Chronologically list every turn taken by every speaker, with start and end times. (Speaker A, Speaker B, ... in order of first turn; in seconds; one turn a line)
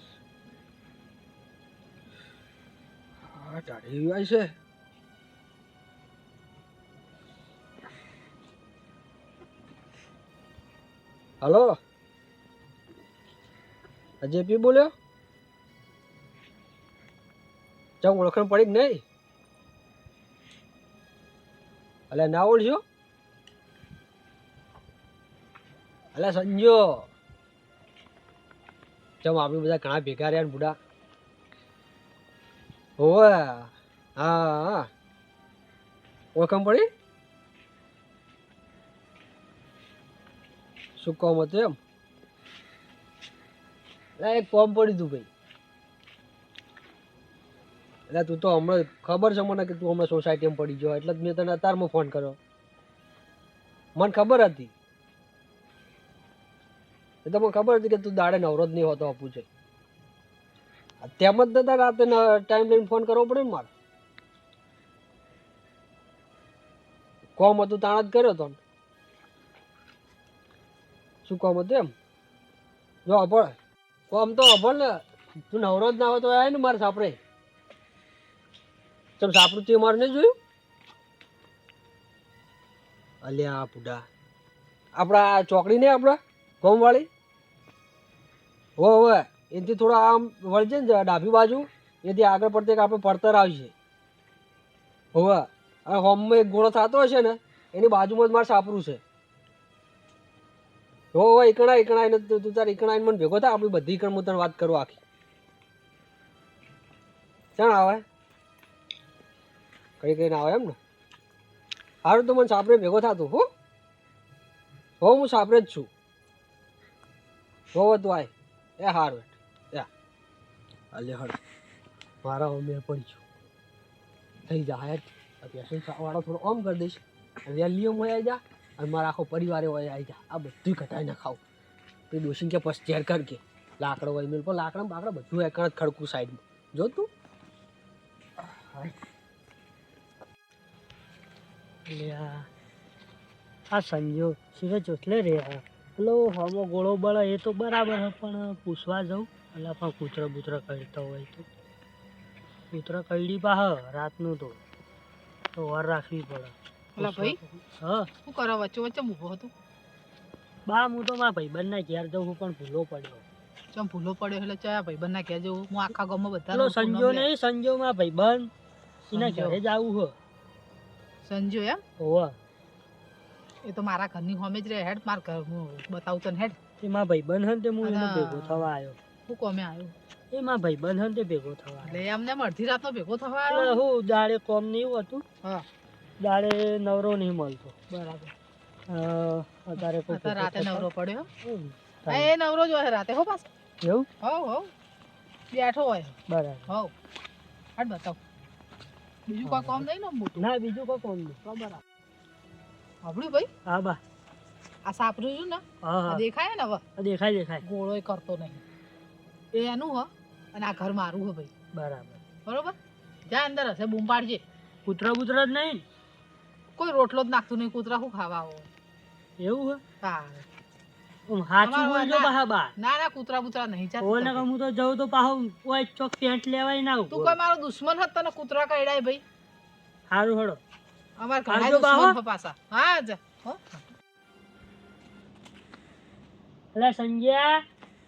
Speaker A: 3.3-4.5
Speaker A: 11.4-11.8
Speaker A: 14.2-14.9
Speaker A: 18.0-19.0
Speaker A: 22.1-22.8
Speaker A: 26.1-27.1
Speaker A: 29.2-30.8
Speaker A: 33.0-34.9
Speaker A: 36.4-36.9
Speaker A: 41.0-41.8
Speaker A: 44.2-45.3
Speaker A: 48.1-52.4
Speaker A: 54.0-54.7
Speaker A: 57.2-59.5
Speaker A: 61.0-63.7
Speaker A: 67.4-68.6
Speaker A: 71.3-71.9
Speaker A: 73.1-73.5
Speaker A: 74.1-77.2
Speaker A: 79.2-80.3
Speaker A: 83.2-84.0
Speaker A: 85.0-87.1
Speaker A: 88.8-93.7
Speaker A: 95.1-99.0
Speaker A: 101.1-105.0
Speaker A: 107.6-108.0
Speaker A: 110.0-110.8
Speaker A: 112.0-113.5
Speaker A: 115.0-115.9
Speaker A: 117.7-119.9
Speaker A: 120.9-121.4
Speaker A: 122.2-123.2
Speaker A: 124.5-131.4
Speaker A: 132.1-137.1
Speaker A: 138.4-138.9
Speaker B: 141.9-142.5
Speaker B: 143.7-151.5
Speaker B: 152.7-154.6
Speaker B: 155.6-158.1
Speaker C: 157.0-157.4
Speaker C: 158.2-159.5
Speaker B: 160.7-163.2
Speaker C: 163.7-167.3
Speaker B: 166.5-168.5
Speaker C: 169.1-169.6
Speaker B: 169.1-170.2
Speaker C: 171.2-171.8
Speaker B: 172.0-172.3
Speaker C: 173.7-176.6
Speaker B: 176.8-179.0
Speaker C: 177.8-178.7
Speaker C: 179.3-179.9
Speaker B: 180.3-182.0
Speaker C: 181.8-183.8
Speaker B: 183.5-185.2
Speaker B: 186.2-187.7
Speaker C: 187.9-188.3
Speaker B: 188.9-190.9
Speaker C: 190.1-191.3
Speaker B: 191.4-192.3
Speaker C: 192.1-193.5
Speaker B: 193.8-194.1
Speaker C: 194.2-194.7
Speaker C: 195.5-196.9
Speaker B: 196.3-196.7
Speaker C: 197.8-198.2
Speaker C: 199.3-200.5
Speaker B: 199.4-199.9
Speaker B: 200.4-201.4
Speaker C: 201.4-201.8
Speaker C: 203.0-203.5
Speaker B: 203.7-204.0
Speaker C: 204.8-206.8
Speaker B: 205.8-206.2
Speaker B: 207.0-207.6
Speaker C: 207.6-208.6
Speaker C: 209.5-211.5
Speaker B: 211.7-212.2
Speaker C: 212.5-212.8
Speaker C: 213.3-214.4
Speaker B: 214.8-215.8
Speaker C: 216.8-218.7
Speaker B: 219.4-219.8
Speaker C: 220.0-220.5
Speaker B: 221.3-222.7
Speaker C: 221.6-224.5
Speaker B: 224.0-227.4
Speaker C: 227.1-229.2
Speaker B: 230.1-230.6
Speaker C: 231.2-233.8
Speaker B: 231.5-232.2
Speaker B: 236.8-237.6